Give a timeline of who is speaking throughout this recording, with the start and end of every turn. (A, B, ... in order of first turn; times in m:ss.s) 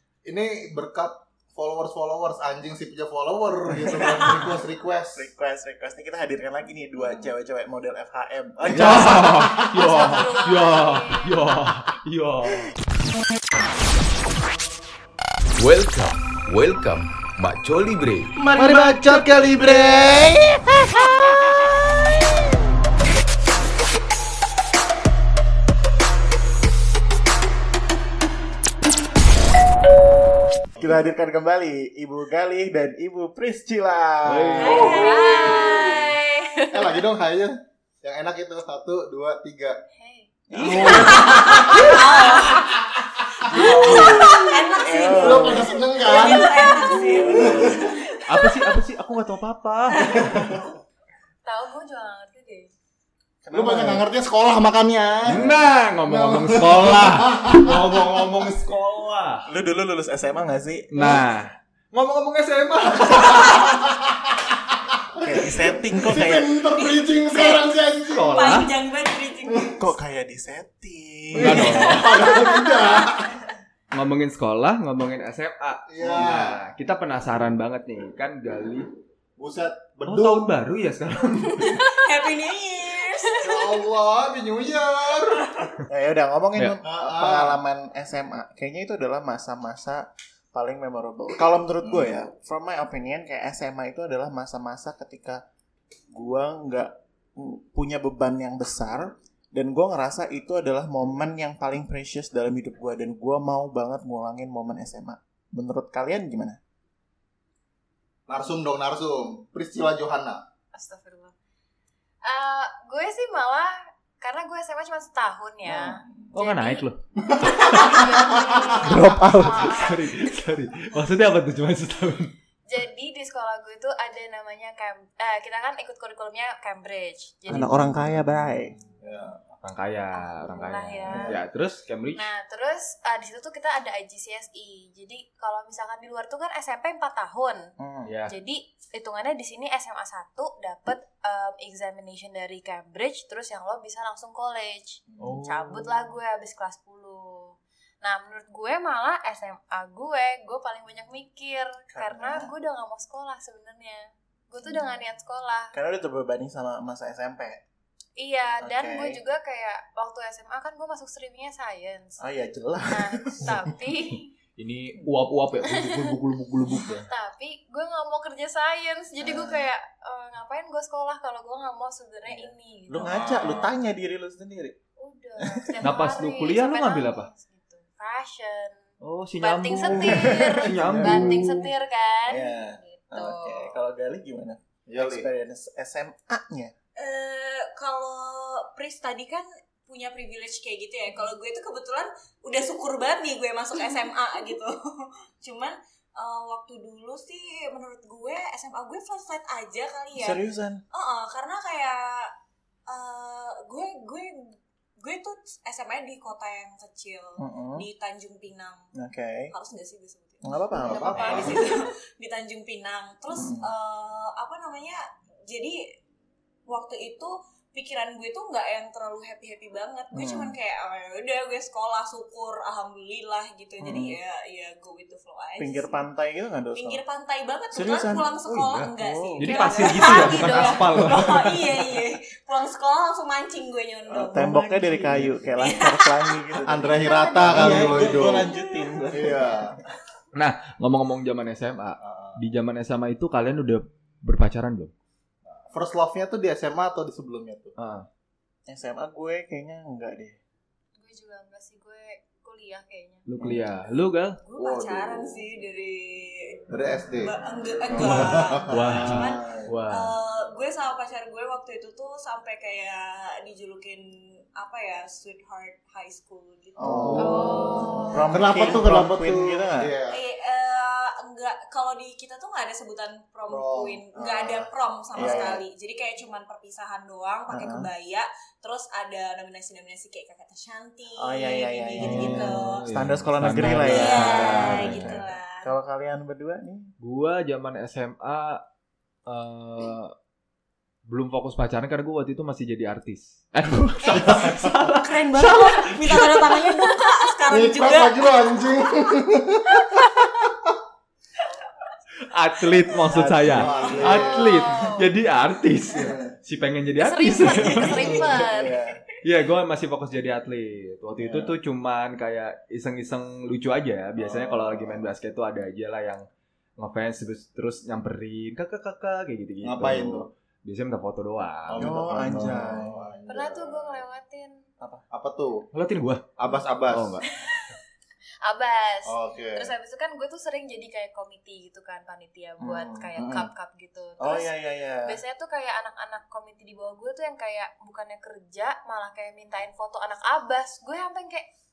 0:00.2-0:05.3 A
0:05.2-0:10.2 B
0:08.7-0:09.7 A
0:08.7-0:12.7 C
0:09.8-0:11.5 D
0:15.6-0:18.4 C
0:18.4-0:20.0 B
0:18.5-0:21.0 A
0:30.8-0:35.2 B
0:34.2-0:35.1 C
0:34.6-0:36.1 E
0:34.7-0:37.0 D
0:36.7-0:39.8 A
0:40.0-0:42.6 D
0:40.5-0:41.9 B
0:40.6-0:40.9 C
0:40.6-0:42.6 A
0:40.7-0:42.6 E
0:43.5-0:44.3 A
0:43.5-0:46.4 B
0:43.5-0:43.8 C
0:43.5-0:48.7 E
0:43.6-0:44.9 D
0:45.1-0:48.0 A
0:46.8-0:47.9 D
0:47.1-0:47.8 B
0:48.3-0:50.6 C
0:50.0-0:50.3 E
0:51.4-0:52.7 D
0:53.4-0:54.1 B
0:53.5-0:58.4 A
0:55.3-0:59.5 C
0:59.5-1:01.2 B
1:00.9-1:03.2 C
1:02.0-1:08.6 A
1:05.2-1:06.6 B
1:06.8-1:09.9 E
1:08.1-1:08.7 C
1:09.5-1:09.7 A
1:09.8-1:12.2 B
1:11.3-1:13.4 A
1:11.4-1:12.2 C
1:12.2-1:12.6 E
1:13.9-1:18.9 C
1:15.9-1:16.6 A
1:19.4-1:20.6 A
1:20.1-1:21.8 C
1:21.6-1:23.6 E
1:23.2-1:23.5 D
1:23.4-1:25.5 A
1:25.9-1:35.4 B
1:26.8-1:27.6 A
1:31.8-1:32.1 A
1:36.1-1:46.6 B
1:48.3-1:50.4 A
1:50.7-1:51.3 D
1:52.2-2:00.3 D
1:56.3-1:57.0 C
1:58.8-1:59.8 B
1:59.5-2:02.4 C
2:02.7-2:07.8 D
2:07.5-2:08.8 B
2:09.0-2:09.4 A
2:09.6-2:12.3 C
2:10.1-2:11.5 D
2:12.1-2:17.7 D
2:17.8-2:18.2 B
2:18.0-2:18.3 C
2:18.3-2:35.7 D
2:25.2-2:25.9 C
2:31.9-2:32.5 B
2:35.7-2:37.6 B
2:38.2-2:42.2 D
2:38.6-2:39.2 B
2:42.2-2:43.7 B
2:42.9-2:44.3 D
2:44.6-2:47.1 C
2:45.6-2:46.2 D
2:46.7-2:53.7 D
2:49.2-2:49.7 B
2:52.3-2:54.8 B
2:53.0-2:53.7 A
2:55.0-2:58.8 D
2:55.4-2:55.8 B
2:55.8-2:57.3 C
2:59.0-3:01.5 C
2:59.4-3:03.8 D
2:59.8-3:01.6 A
3:00.1-3:01.4 B
3:02.3-3:06.7 B
3:04.9-3:05.3 A
3:07.0-3:22.4 E
3:20.2-3:20.8 B
3:22.9-3:28.9 E
3:27.4-3:27.9 B
3:29.0-3:29.5 B
3:29.5-3:30.5 E
3:30.4-3:31.5 B
3:30.7-3:31.7 A
3:30.9-3:31.8 D
3:31.3-3:35.8 E
3:33.3-3:33.7 B
3:36.7-3:46.0 E
3:40.1-3:40.6 B
3:43.8-3:44.2 B
3:45.6-3:47.0 B
3:46.7-3:56.6 E
3:47.7-3:48.3 B
3:48.4-3:51.7 C
3:49.0-3:49.5 B
3:49.4-3:51.3 D
3:54.1-3:59.8 B
3:56.7-3:58.5 A
3:56.9-3:58.2 D
3:57.8-3:59.0 E
3:59.1-3:59.8 A
4:00.3-4:04.9 C
4:02.0-4:02.5 A
4:05.5-4:07.7 A
4:07.8-4:08.1 C
4:08.7-4:10.4 B
4:11.0-4:13.2 D
4:13.3-4:14.4 C
4:14.4-4:28.2 E
4:14.6-4:15.4 A
4:16.7-4:17.4 A
4:17.9-4:19.8 A
4:18.1-4:20.2 C
4:26.8-4:29.9 B
4:26.8-4:30.2 A
4:27.2-4:28.3 D
4:30.1-4:42.9 E
4:33.5-4:34.0 A
4:34.2-4:35.6 B
4:35.2-4:35.6 A
4:37.5-4:37.9 B
4:41.2-4:46.9 B
4:42.0-4:45.2 C
4:43.8-4:45.7 E
4:47.0-4:48.6 C
4:49.3-4:50.1 C
4:51.1-4:56.9 C
4:54.1-4:54.7 A
4:54.8-4:58.3 E
4:57.5-5:00.1 A
5:02.3-5:08.1 C
5:03.0-5:04.2 B
5:03.5-5:04.6 A
5:04.0-5:05.2 D
5:06.0-5:06.2 A
5:07.0-5:08.8 D
5:07.5-5:08.3 E
5:08.1-5:09.0 B
5:09.2-5:21.9 C
5:11.2-5:11.5 A
5:14.2-5:15.1 A
5:19.6-5:20.3 A
5:21.7-5:24.0 A
5:21.8-5:22.9 B
5:23.3-5:24.6 D
5:25.1-5:25.6 A
5:25.7-5:26.3 C
5:26.4-5:27.2 A
5:26.9-5:27.7 C
5:28.4-5:34.5 D
5:29.0-5:29.7 A
5:32.6-5:33.1 B
5:33.2-5:33.5 A
5:34.2-5:35.2 B
5:35.0-5:41.4 D